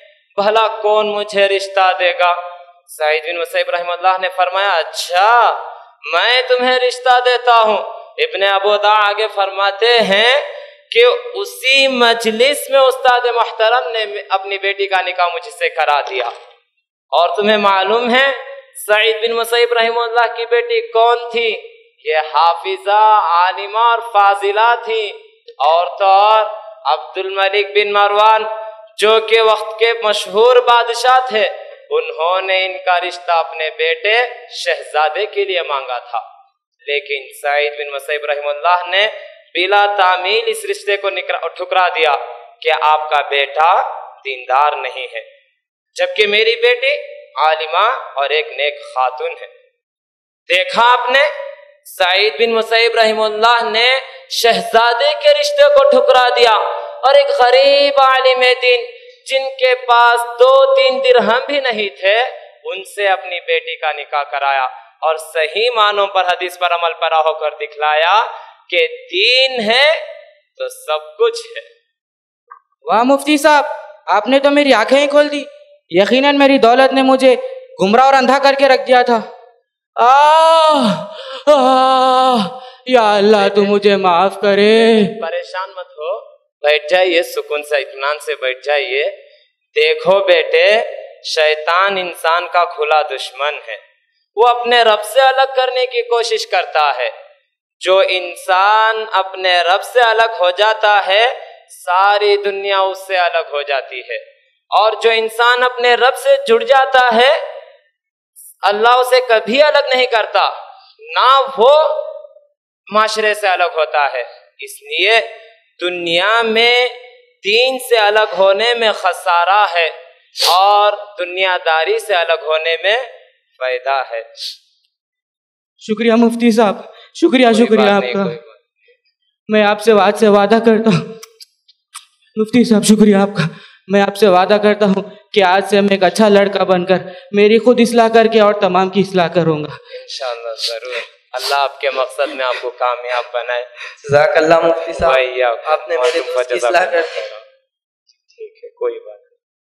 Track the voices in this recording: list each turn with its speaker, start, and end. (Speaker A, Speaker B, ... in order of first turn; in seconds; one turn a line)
Speaker A: 0.4-2.4
Speaker A: 2.9-16.3
Speaker A: 17.1-36.2
Speaker A: 36.8-45.2
Speaker A: 46.0-49.5
Speaker A: 50.5-51.3
Speaker A: 51.9-70.0
Speaker A: 70.6-71.7
Speaker B: 72.9-79.2
Speaker B: 80.0-85.1
Speaker A: 83.4-83.8
Speaker A: 85.2-89.1
Speaker A: 89.8-93.8
Speaker A: 94.4-97.1
Speaker A: 97.8-107.4
Speaker A: 108.6-110.5
Speaker A: 111.0-112.0
Speaker A: 112.9-115.3
Speaker A: 115.8-119.9
Speaker A: 120.5-123.1
Speaker A: 123.6-124.2
Speaker B: 125.8-128.4
Speaker A: 127.5-128.6
Speaker B: 129.5-131.0
Speaker B: 132.4-139.8
Speaker A: 139.9-143.7
Speaker C: 144.0-147.2
Speaker A: 145.0-147.4
Speaker A: 148.3-149.2